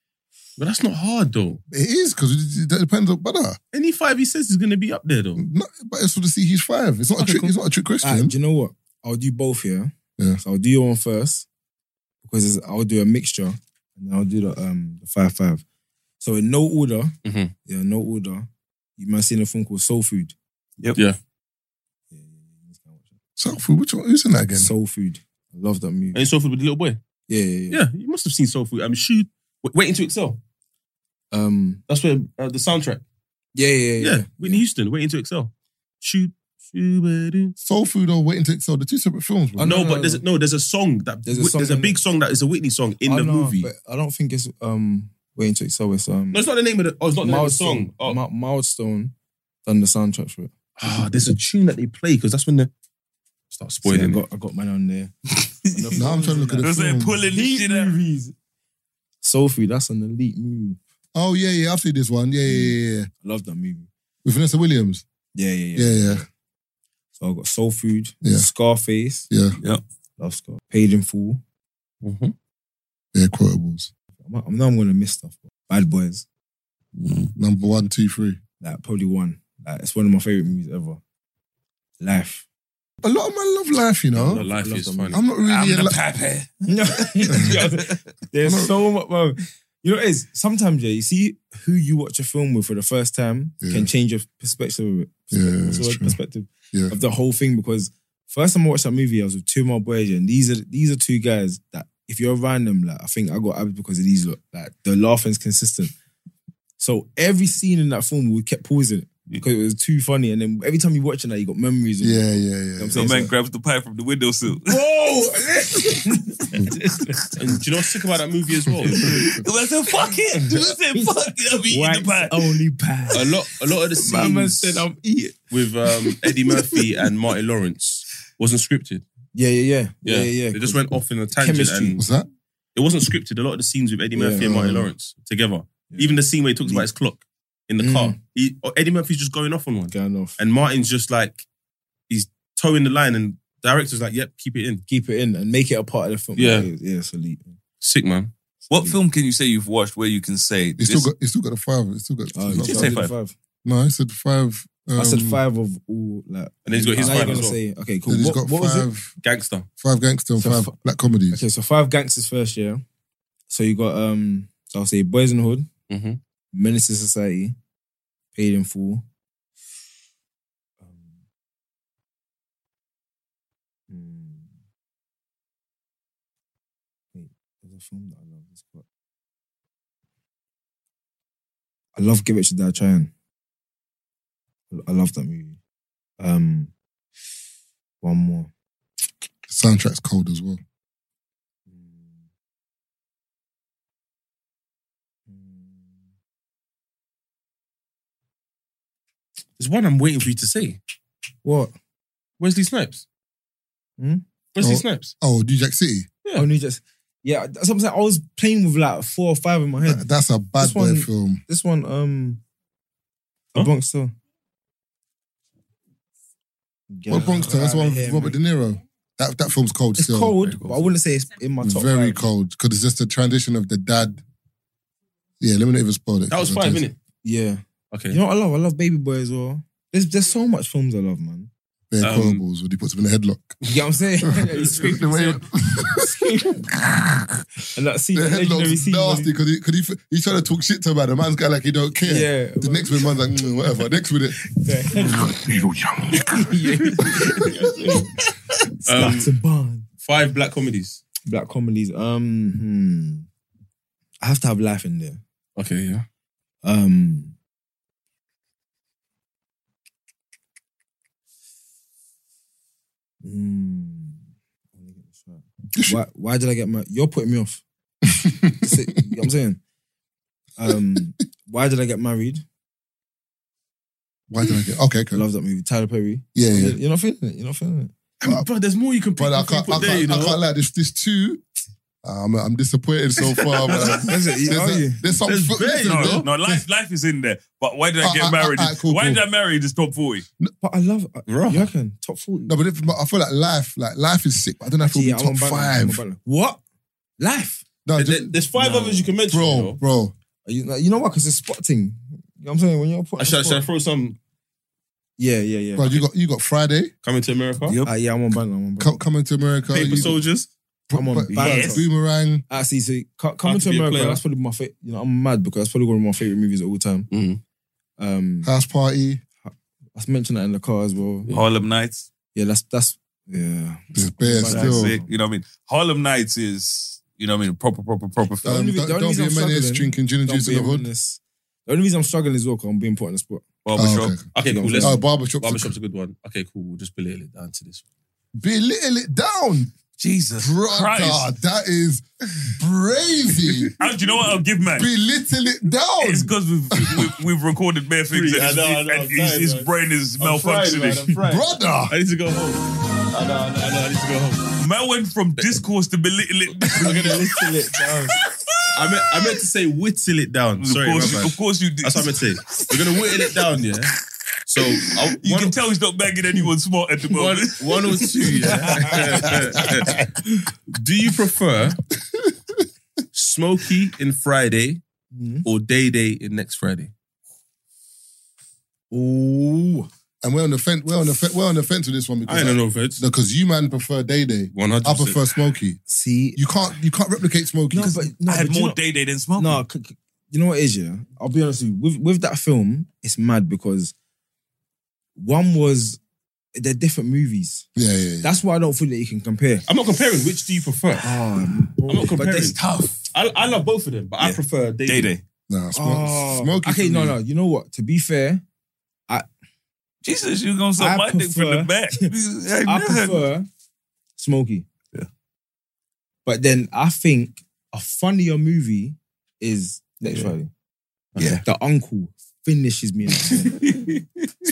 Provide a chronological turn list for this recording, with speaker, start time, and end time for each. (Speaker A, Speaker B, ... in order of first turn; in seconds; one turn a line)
Speaker A: 0.6-1.6
Speaker B: 1.7-3.6
Speaker A: 3.7-5.4
Speaker B: 5.4-8.3
Speaker A: 7.2-7.5
Speaker C: 8.0-11.4
Speaker C: 12.2-15.6
Speaker C: 16.2-17.1
Speaker A: 17.2-17.5
Speaker C: 17.6-20.3
Speaker C: 22.1-23.1
Speaker B: 23.4-24.7
Speaker C: 24.5-26.2
Speaker A: 26.1-27.0
Speaker C: 27.3-27.8
Speaker A: 27.7-30.4
Speaker C: 31.3-31.8
Speaker A: 31.9-33.0
Speaker C: 33.5-34.6
Speaker A: 34.0-37.5
Speaker B: 37.6-39.7
Speaker C: 39.6-40.2
Speaker A: 39.6-43.7
Speaker C: 41.2-42.0
Speaker C: 43.0-46.5
Speaker A: 46.3-48.2
Speaker C: 47.2-49.1
Speaker C: 49.6-50.5
Speaker A: 50.8-52.7
Speaker A: 53.5-54.2
Speaker C: 53.8-55.1
Speaker D: 55.5-56.0
Speaker C: 55.7-56.8
Speaker B: 55.9-57.2
Speaker D: 56.6-57.9
Speaker C: 57.3-58.4
Speaker C: 59.2-60.8
Speaker B: 61.1-63.1
Speaker C: 62.5-63.9
Speaker B: 64.2-65.0
Speaker C: 65.3-66.3
Speaker B: 65.8-66.2
Speaker C: 67.2-69.3
Speaker B: 68.2-68.5
Speaker B: 69.3-69.6
Speaker C: 70.2-71.4
Speaker A: 72.0-72.3
Speaker B: 73.1-73.9
Speaker C: 74.2-76.2
Speaker D: 77.0-77.3
Speaker B: 77.3-78.4
Speaker C: 78.6-81.0
Speaker C: 82.0-82.4
Speaker B: 83.0-84.4
Speaker C: 84.2-85.2
Speaker A: 84.2-85.2
Speaker B: 85.1-86.0
Speaker D: 85.4-88.0
Speaker C: 86.6-105.9
Speaker B: 88.4-88.7
Speaker B: 93.6-93.9
Speaker B: 95.3-96.2
Speaker C: 106.8-113.3
Speaker B: 112.0-113.2
Speaker D: 112.9-114.8
Speaker C: 114.6-117.2
Speaker A: 117.3-119.1
Speaker C: 118.8-119.4
Speaker D: 119.1-122.5
Speaker C: 120.5-123.4
Speaker A: 123.1-124.9
Speaker C: 124.0-125.4
Speaker A: 125.5-129.0
Speaker C: 126.0-126.5
Speaker C: 129.3-130.8
Speaker A: 130.0-132.0
Speaker C: 131.3-132.0
Speaker B: 132.0-132.3
Speaker A: 132.8-141.4
Speaker C: 134.1-134.9
Speaker C: 135.9-136.9
Speaker C: 137.8-138.2
Speaker C: 139.9-140.4
Speaker A: 142.1-144.8
Speaker C: 144.9-147.6
Speaker A: 146.3-146.7
Speaker A: 147.8-148.3
Speaker D: 148.7-151.1
Speaker C: 148.7-149.0
Speaker B: 150.8-152.9
Speaker C: 152.3-153.3
Speaker D: 152.5-153.1
Speaker B: 153.6-155.4
Speaker C: 154.9-158.9
Speaker A: 156.7-157.6
Speaker B: 157.1-157.3
Speaker B: 158.1-159.2
Speaker A: 159.2-159.7
Speaker B: 159.8-161.4
Speaker C: 160.4-160.8
Speaker C: 161.3-162.8
Speaker C: 163.5-165.7
Speaker A: 165.9-166.2
Speaker C: 166.5-167.6
Speaker C: 168.3-169.0
Speaker C: 170.8-171.1
Speaker C: 173.9-174.5
Speaker C: 177.1-178.8
Speaker C: 181.9-183.1
Speaker C: 184.7-185.6
Speaker C: 186.2-186.7
Speaker C: 188.0-188.5
Speaker B: 189.5-190.6
Speaker C: 191.7-192.2
Speaker C: 195.3-196.0
Speaker A: 199.6-200.8
Speaker C: 201.4-201.7
Speaker A: 202.4-203.0
Speaker C: 204.0-204.2
Speaker A: 204.5-205.1
Speaker B: 204.6-206.1
Speaker C: 206.3-210.1
Speaker B: 209.8-211.4
Speaker C: 210.6-212.4
Speaker C: 213.5-214.1
Speaker C: 216.9-218.4
Speaker B: 217.1-220.5
Speaker C: 220.0-222.2
Speaker B: 221.6-224.2
Speaker B: 225.4-226.8
Speaker A: 226.3-226.9
Speaker C: 227.2-231.5
Speaker A: 227.9-228.2
Speaker B: 231.9-233.6
Speaker A: 232.0-232.4
Speaker C: 233.7-236.7
Speaker B: 234.2-237.4
Speaker C: 237.7-239.3
Speaker B: 238.1-247.4
Speaker C: 242.0-243.2
Speaker C: 244.5-245.5
Speaker C: 246.2-248.1
Speaker C: 248.8-249.8
Speaker A: 248.8-249.3
Speaker A: 250.0-251.0
Speaker C: 251.2-253.3
Speaker C: 254.2-255.2
Speaker A: 255.6-256.0
Speaker C: 256.6-257.3
Speaker C: 263.2-264.2
Speaker C: 264.7-267.6
Speaker B: 268.1-268.8
Speaker C: 268.6-269.6
Speaker C: 270.6-272.4
Speaker B: 274.3-275.2
Speaker C: 275.1-277.9
Speaker B: 276.3-276.8
Speaker A: 278.2-280.4
Speaker B: 279.2-281.4
Speaker B: 282.0-286.6
Speaker A: 283.3-284.1
Speaker C: 284.0-285.0
Speaker A: 285.3-286.3
Speaker D: 285.8-290.2
Speaker B: 288.0-289.2
Speaker C: 290.6-292.6
Speaker A: 291.3-291.7
Speaker B: 292.5-296.0
Speaker C: 294.8-296.6
Speaker C: 297.2-297.6
Speaker B: 297.9-298.4
Speaker A: 297.9-299.8
Speaker C: 298.6-299.1
Speaker B: 299.2-300.1
Speaker C: 300.4-303.6
Speaker A: 303.2-304.2
Speaker C: 305.2-306.0
Speaker B: 305.8-306.9
Speaker A: 307.0-307.8
Speaker D: 307.7-307.9
Speaker C: 307.8-309.0
Speaker B: 308.8-310.2
Speaker A: 309.7-310.5
Speaker B: 310.9-312.4
Speaker C: 310.9-311.9
Speaker D: 311.4-311.8
Speaker C: 312.5-317.1
Speaker A: 313.4-314.2
Speaker A: 317.1-317.4
Speaker C: 318.0-318.5
Speaker B: 318.4-319.2
Speaker C: 319.4-321.3
Speaker D: 321.3-322.1
Speaker C: 322.3-325.1
Speaker B: 323.9-324.9
Speaker D: 324.4-328.6
Speaker B: 328.4-330.9
Speaker C: 328.4-333.4
Speaker D: 333.7-334.1
Speaker B: 333.8-334.2
Speaker A: 334.3-337.8
Speaker C: 334.4-335.0
Speaker B: 334.8-335.7
Speaker B: 338.4-339.7
Speaker D: 340.0-341.3
Speaker B: 340.4-343.7
Speaker D: 343.8-344.9
Speaker B: 344.7-347.2
Speaker D: 346.0-351.1
Speaker A: 348.1-354.5
Speaker B: 351.2-351.9
Speaker D: 354.6-357.2
Speaker A: 356.7-357.2
Speaker C: 356.8-358.2
Speaker A: 358.7-363.9
Speaker D: 360.6-363.3
Speaker A: 364.5-365.6
Speaker D: 364.7-369.6
Speaker A: 367.1-370.0
Speaker B: 369.6-370.0
Speaker A: 370.7-371.8
Speaker A: 373.1-374.8
Speaker C: 375.1-375.4
Speaker A: 375.4-376.9
Speaker C: 378.9-379.9
Speaker B: 380.2-385.8
Speaker A: 382.2-383.0
Speaker A: 384.5-385.2
Speaker C: 385.9-386.4
Speaker B: 386.4-388.0
Speaker C: 387.7-388.8
Speaker D: 387.8-389.6
Speaker C: 389.4-393.9
Speaker C: 395.2-396.0
Speaker C: 396.6-397.6
Speaker B: 397.7-398.3
Speaker C: 398.2-399.6
Speaker A: 399.7-401.1
Speaker C: 401.0-402.5
Speaker A: 401.9-402.6
Speaker D: 402.2-403.0
Speaker A: 403.1-405.1
Speaker D: 404.2-405.2
Speaker B: 405.5-407.2
Speaker C: 405.7-408.4
Speaker D: 410.0-413.2
Speaker C: 410.8-412.1
Speaker C: 412.6-413.5
Speaker C: 414.2-414.7
Speaker C: 416.2-420.5
Speaker A: 421.1-421.4
Speaker C: 421.4-424.0